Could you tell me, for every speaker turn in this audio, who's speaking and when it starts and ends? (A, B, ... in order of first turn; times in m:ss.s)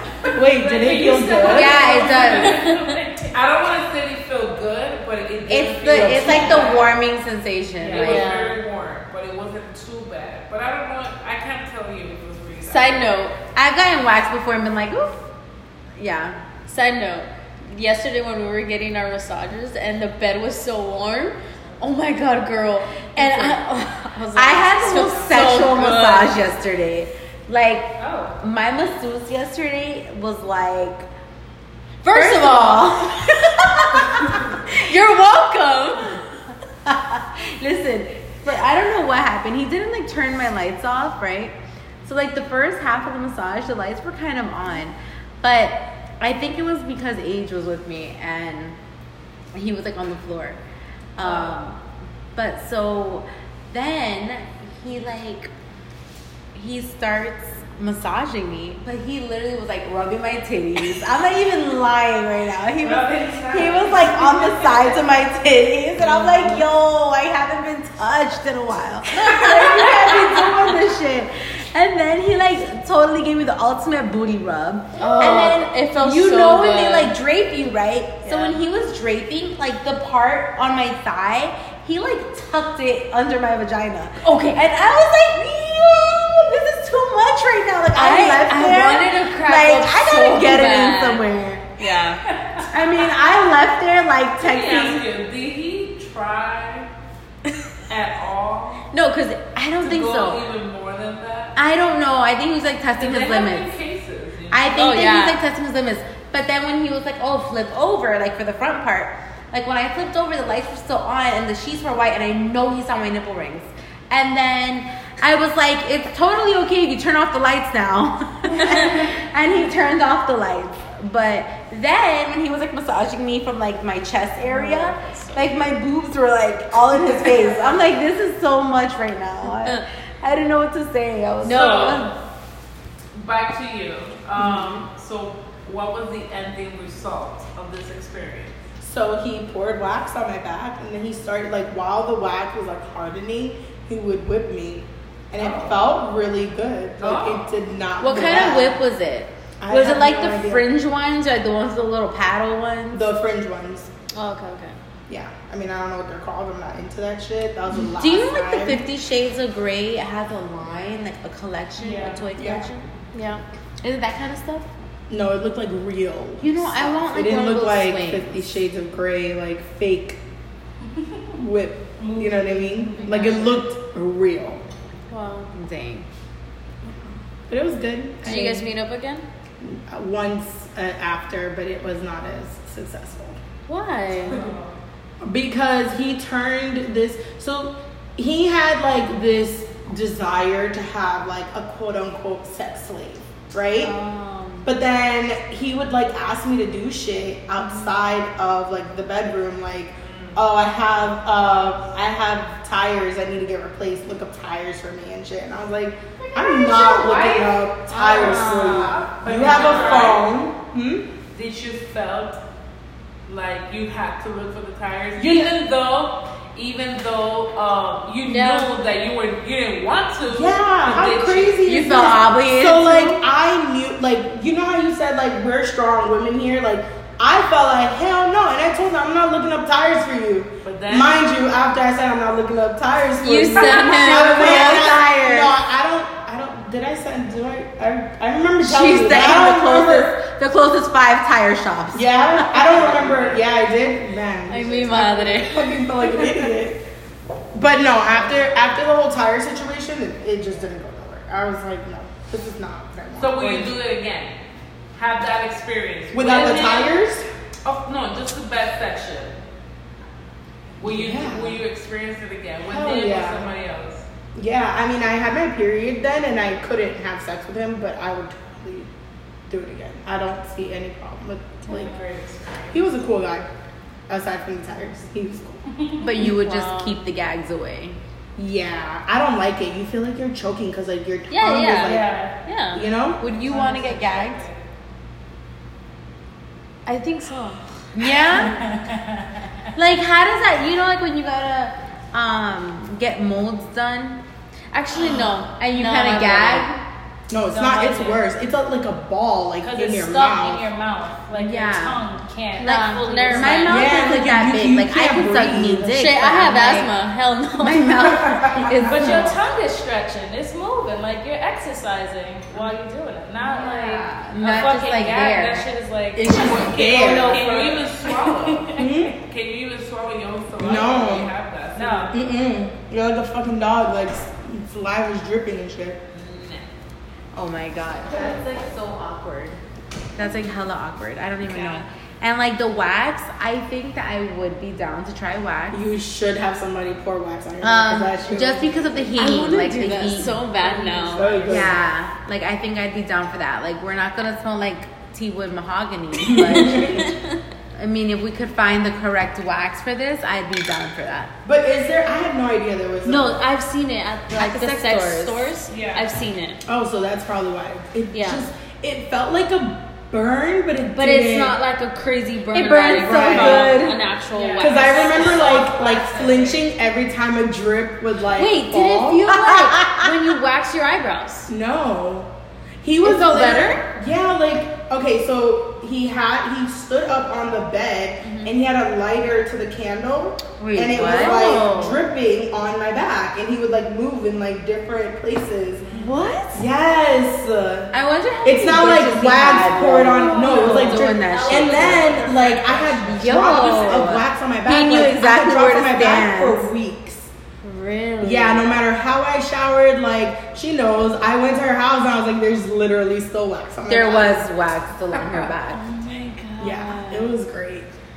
0:00.2-0:03.4 A
0:00.3-0:01.8 B
0:00.6-0:02.4 C
0:01.4-0:02.6 D
0:01.9-0:03.0 E
0:03.3-0:07.0 C
0:05.5-0:08.3 D
0:05.9-0:06.8 B
0:07.8-0:13.2 C
0:07.9-0:08.6 E
0:12.7-0:13.4 E
0:13.6-0:15.2 D
0:16.0-0:16.4 D
0:16.7-0:26.4 E
0:23.2-0:23.7 D
0:24.3-0:31.1 D
0:28.0-0:28.4 A
0:32.0-0:33.2 E
0:32.1-0:34.7 D
0:34.7-0:36.2 E
0:36.8-0:48.8 D
0:49.5-0:50.6 D
0:51.2-0:51.8 D
0:51.2-0:51.6 A
0:52.4-0:55.5 D
0:56.5-1:31.7 D
1:02.8-1:05.1 A
1:09.2-1:10.2 E
1:15.0-1:17.1 E
1:24.2-1:24.6 E
1:28.0-1:31.2 E
1:31.8-1:32.2 E
1:32.3-1:32.7 A
1:32.7-1:35.0 D
1:34.4-1:36.9 C
1:37.9-1:38.9 C
1:38.9-1:40.4 D
1:39.8-1:41.6 C
1:41.6-1:43.7 D
1:43.0-1:44.8 C
1:44.5-2:12.1 D
1:44.7-1:45.4 E
1:58.7-1:59.1 A
2:04.6-2:04.9 E
2:11.4-2:12.0 E
2:11.4-2:12.1 C
2:13.1-2:18.5 C
2:18.8-2:28.8 B
2:25.4-2:25.8 C
2:27.0-2:27.5 C
2:28.0-2:33.0 D
2:29.6-2:30.7 B
2:32.9-2:33.9 B
2:34.1-2:34.8 E
2:35.1-2:38.8 B
2:37.9-2:42.9 D
2:41.8-2:42.3 A
2:42.4-2:42.7 B
2:43.1-2:43.4 E
2:43.8-2:44.7 D
2:45.1-2:50.2 B
2:46.4-2:48.5 D
2:50.9-2:51.3 A
2:51.4-2:54.6 B
2:52.0-2:53.5 A
2:55.1-2:55.5 E
2:55.5-2:56.1 D
2:57.5-2:58.7 B
2:58.2-2:59.2 E
2:59.6-3:03.4 B
3:03.7-3:04.4 E
3:04.3-3:04.6 A
3:05.2-3:13.9 B
3:13.8-3:14.7 E
3:14.6-3:31.1 B
3:17.6-3:17.9 E
3:20.0-3:20.4 C
3:27.9-3:30.2 E
3:29.2-3:30.2 C
3:31.3-3:32.4 C
3:33.3-3:41.6 C
3:35.2-3:35.6 B
3:38.2-3:38.7 E
3:40.3-4:00.2 B
3:41.6-3:43.2 D
3:50.6-3:51.2 C
3:53.2-3:54.9 E
3:53.5-3:55.5 D
3:58.6-4:02.9 D
4:01.9-4:06.8 B
4:02.7-4:03.4 C
4:04.5-4:05.7 E
4:07.5-4:13.8 B
4:13.2-4:14.4 C
4:15.0-4:16.9 C
4:16.1-4:17.3 B
4:17.6-4:19.4 C
4:20.8-4:24.1 C
4:20.8-4:21.6 B
4:22.7-4:23.5 B
4:24.4-4:28.9 B
4:29.5-4:31.9 B
4:31.7-4:33.0 C
4:32.7-4:33.5 B
4:34.1-4:35.6 B
4:35.7-4:36.1 A
4:36.0-4:38.0 D
4:36.2-4:37.0 E
4:38.4-4:42.1 B
4:41.3-4:42.8 E
4:41.8-4:42.4 A
4:42.7-4:43.2 B
4:43.2-4:44.4 D
4:43.4-4:44.3 A
4:43.5-4:44.6 C
4:46.9-4:48.2 E
4:47.9-4:48.6 D
4:48.3-4:49.7 A
4:49.8-4:54.2 D
4:54.7-4:56.8 E
4:55.0-4:55.2 B
4:55.6-4:56.7 D
4:57.3-5:00.7 B
4:57.5-4:58.2 A
4:59.6-5:03.8 A
5:01.3-5:02.0 D
5:02.6-5:04.0 E
5:02.6-5:06.9 D
5:03.7-5:06.0 B
5:05.9-5:08.0 E
5:07.6-5:09.4 D
5:08.1-5:08.9 B
5:08.8-5:19.1 A
5:13.4-5:15.7 D
5:16.2-5:17.5 B
5:16.3-5:22.1 C
5:18.8-5:19.2 B
5:20.6-5:21.3 B
5:21.8-5:22.2 A
5:22.1-5:26.0 B
5:26.1-5:26.7 C
5:27.3-5:29.6 D
5:30.2-5:35.8 D
5:35.7-5:39.2 B
5:37.6-5:40.6 D
5:39.2-5:41.5 E
5:40.7-5:41.4 A
5:41.1-5:41.8 B
5:41.4-5:47.1 D
5:46.2-5:47.1 B
5:46.4-5:47.4 E
5:47.8-5:51.3 D
5:51.4-5:53.4 B
5:53.0-5:56.6 E
5:54.4-5:55.5 D
5:55.7-5:56.1 A
5:56.7-6:01.6 B
5:58.1-5:58.5 E
6:01.0-6:05.4 E
6:02.5-6:04.0 D
6:02.9-6:03.8 B
6:04.3-6:06.6 A
6:04.6-6:09.4 B
6:08.4-6:11.5 E
6:09.5-6:10.1 D
6:11.5-6:12.3 B
6:12.8-6:25.9 B
6:13.0-6:13.8 E
6:18.2-6:18.5 E
6:20.6-6:22.0 D
6:21.0-6:22.0 E
6:25.9-6:26.6 E
6:26.5-6:27.9 B
6:27.9-6:32.1 D
6:28.4-6:37.3 B
6:30.1-6:33.4 A
6:30.2-6:31.0 E
6:33.1-6:36.7 D
6:33.4-6:34.0 E
6:37.6-6:38.7 E
6:38.2-6:44.5 B
6:43.9-6:45.8 D
6:45.7-6:47.4 E
6:46.6-6:47.9 B